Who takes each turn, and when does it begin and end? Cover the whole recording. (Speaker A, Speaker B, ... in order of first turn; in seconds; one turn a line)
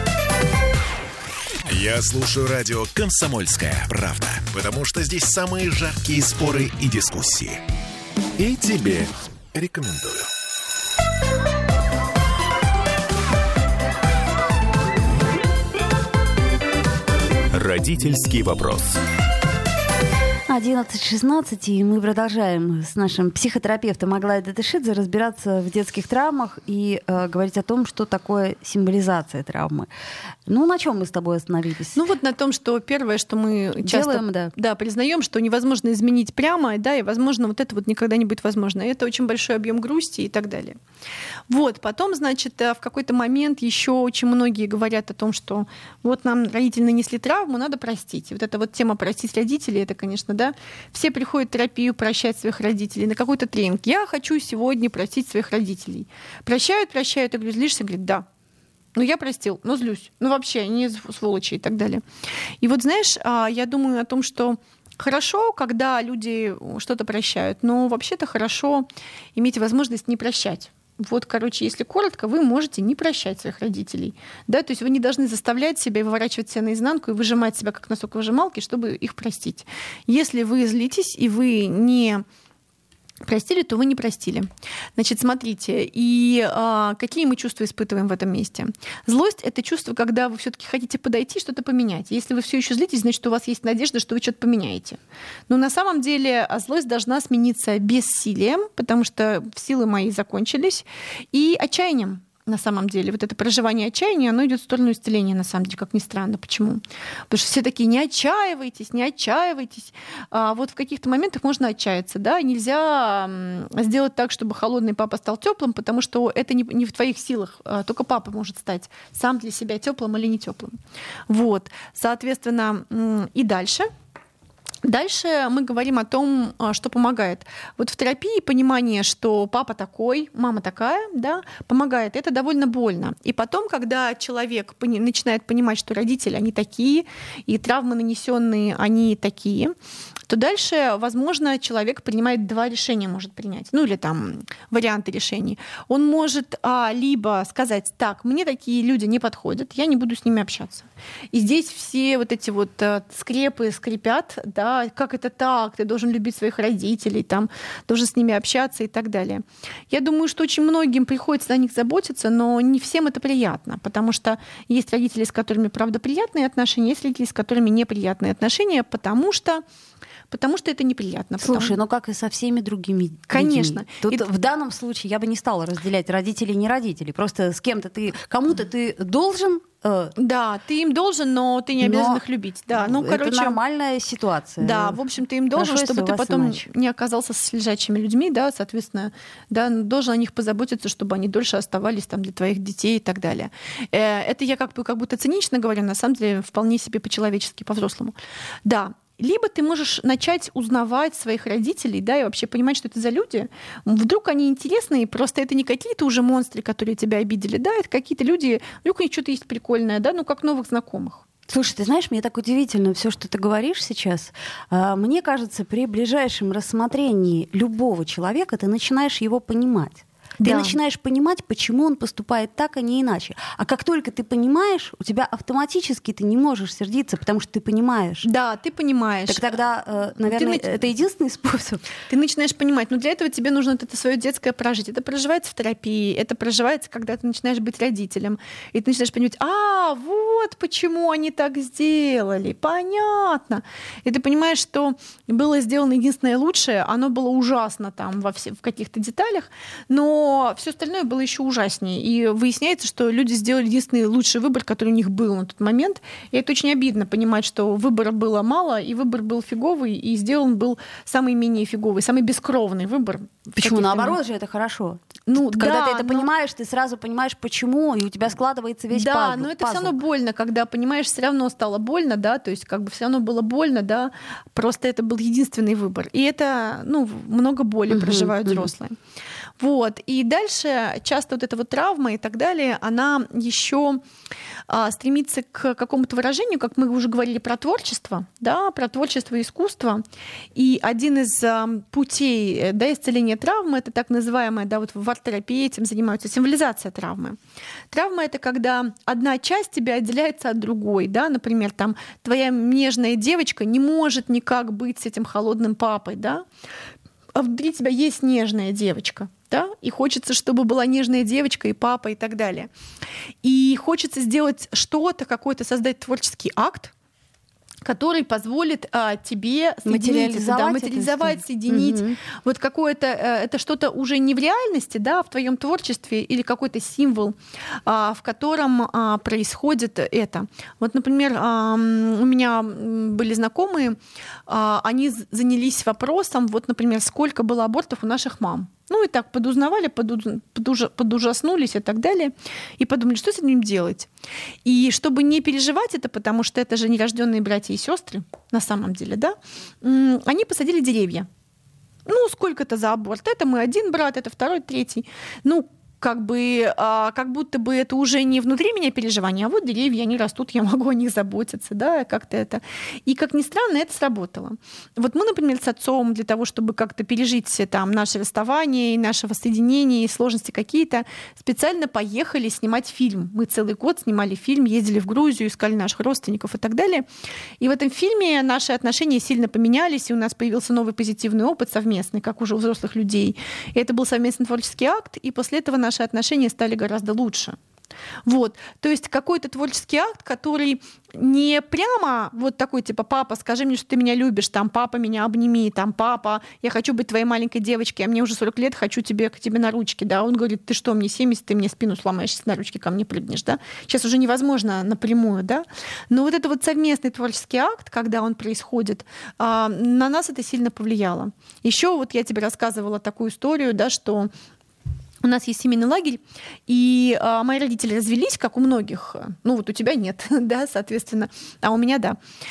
Speaker A: 1.6-7.6
Speaker A: 8.4-10.3
Speaker A: 17.5-19.0
Speaker B: 20.5-29.9
Speaker B: 30.5-32.0
Speaker C: 31.9-40.8
Speaker B: 33.8-34.5
Speaker C: 41.5-58.2
Speaker C: 59.0-62.0
Speaker C: 62.6-82.2
Speaker C: 83.2-120.8
Speaker C: 121.3-123.9
Speaker C: 124.8-139.7
Speaker C: 140.3-169.6
Speaker C: 170.3-171.8
Speaker B: 171.4-180.1
Speaker C: 173.3-174.2
Speaker C: 180.2-183.6
Speaker B: 181.8-182.2
Speaker B: 182.7-185.0
Speaker C: 184.6-211.2
Speaker B: 185.5-186.7
Speaker B: 211.5-228.3
Speaker C: 220.4-220.8
Speaker C: 228.2-229.6
Speaker B: 229.3-231.8
Speaker C: 230.2-230.8
Speaker C: 232.1-264.2
Speaker B: 263.6-269.9
Speaker C: 265.3-266.3
Speaker C: 268.9-279.0
Speaker B: 277.9-278.7
Speaker C: 279.6-284.0
Speaker C: 284.7-290.0
Speaker C: 290.5-297.4
Speaker C: 297.9-306.4
Speaker C: 307.3-312.7
Speaker C: 313.4-316.9
Speaker C: 317.8-344.1
Speaker B: 319.8-322.2
Speaker C: 344.6-351.3
Speaker C: 352.1-377.1
Speaker C: 377.6-387.6
Speaker C: 388.2-414.3
Speaker C: 415.2-422.2